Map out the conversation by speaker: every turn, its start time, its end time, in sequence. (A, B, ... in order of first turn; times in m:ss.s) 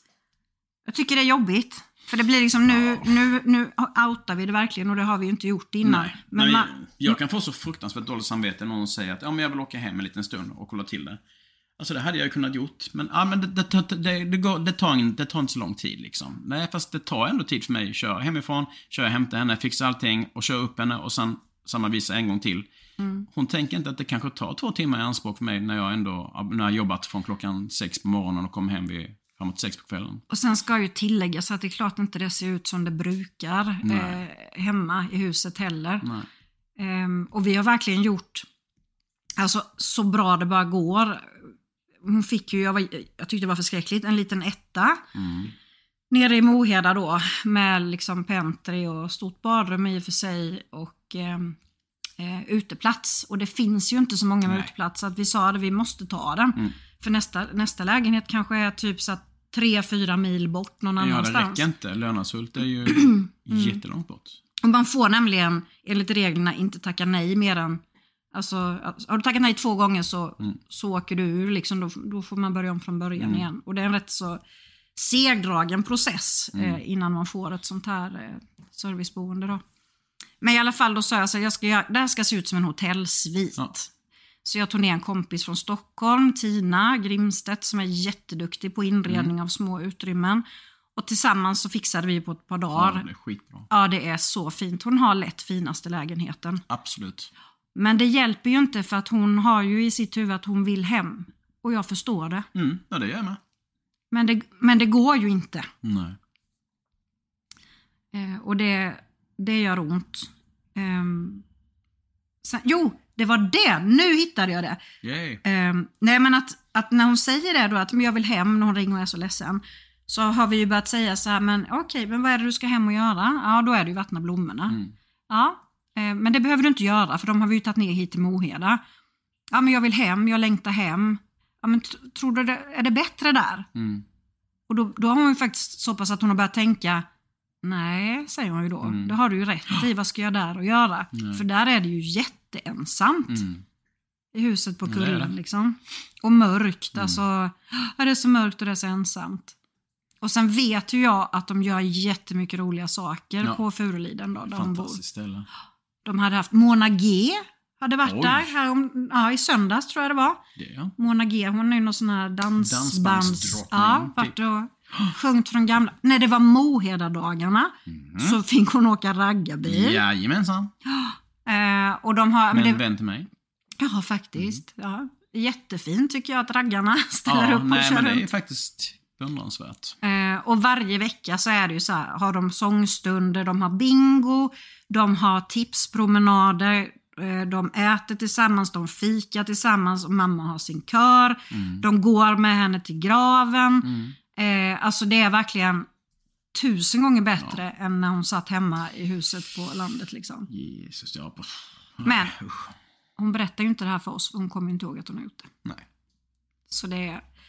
0:00.9-0:07.2 A
0:02.7-0:03.1 B
0:05.8-0:11.2 B
0:11.8-0:22.7 B
0:23.0-0:23.3 A
0:23.3-0:30.2 B
0:30.3-0:36.1 A
0:33.8-0:34.2 B
0:36.0-0:36.3 B
0:36.8-0:38.5 A
0:39.4-0:41.5 A
0:42.0-0:45.0 A
0:45.2-0:45.5 B
0:46.1-0:51.6 A
0:52.2-1:01.6 A
1:01.0-1:04.4 B
1:02.9-1:03.8 A
1:04.6-1:07.8 A
1:08.3-1:14.4 A
1:13.2-1:13.5 B
1:15.0-1:19.6 A
1:16.5-1:16.8 B
1:20.4-1:23.9 A
1:24.4-1:30.4 A
1:29.1-1:29.3 B
1:31.0-1:33.1 A
1:32.7-1:33.7 B
1:33.7-1:36.6 A
1:36.7-1:37.3 B
1:37.8-1:42.5 A
1:42.6-1:43.4 B
1:44.1-1:45.7 A
1:45.8-1:46.2 B
1:48.1-1:51.4 A
1:52.4-1:54.8 A
1:55.0-1:55.4 B
1:55.4-2:04.8 A
2:05.3-2:08.8 A
2:09.5-2:13.7 A
2:13.8-2:14.0 B
2:14.7-2:17.1 A
2:17.6-2:23.4 A
2:18.8-2:19.2 B
2:21.1-2:21.4 B
2:23.3-2:23.6 B
2:24.3-2:29.6 A
2:24.9-2:25.3 B
2:30.2-2:35.0 A
2:34.5-2:35.5 B
2:36.0-2:40.4 A
2:38.0-2:38.5 B
2:40.6-2:40.9 B
2:41.0-2:50.0 A
2:42.6-2:44.3 B
2:47.9-2:48.4 B
2:49.7-2:50.7 B
2:50.9-2:52.8 A
2:52.5-2:53.3 B
2:53.8-2:58.3 A
2:57.3-3:00.0 B
3:00.0-3:15.9 A
3:11.5-3:11.8 B
3:13.8-3:14.2 B
3:16.5-3:20.5 A
3:20.5-3:22.7 B
3:22.0-3:22.4 A
3:23.2-3:25.5 A
3:26.7-3:27.2 A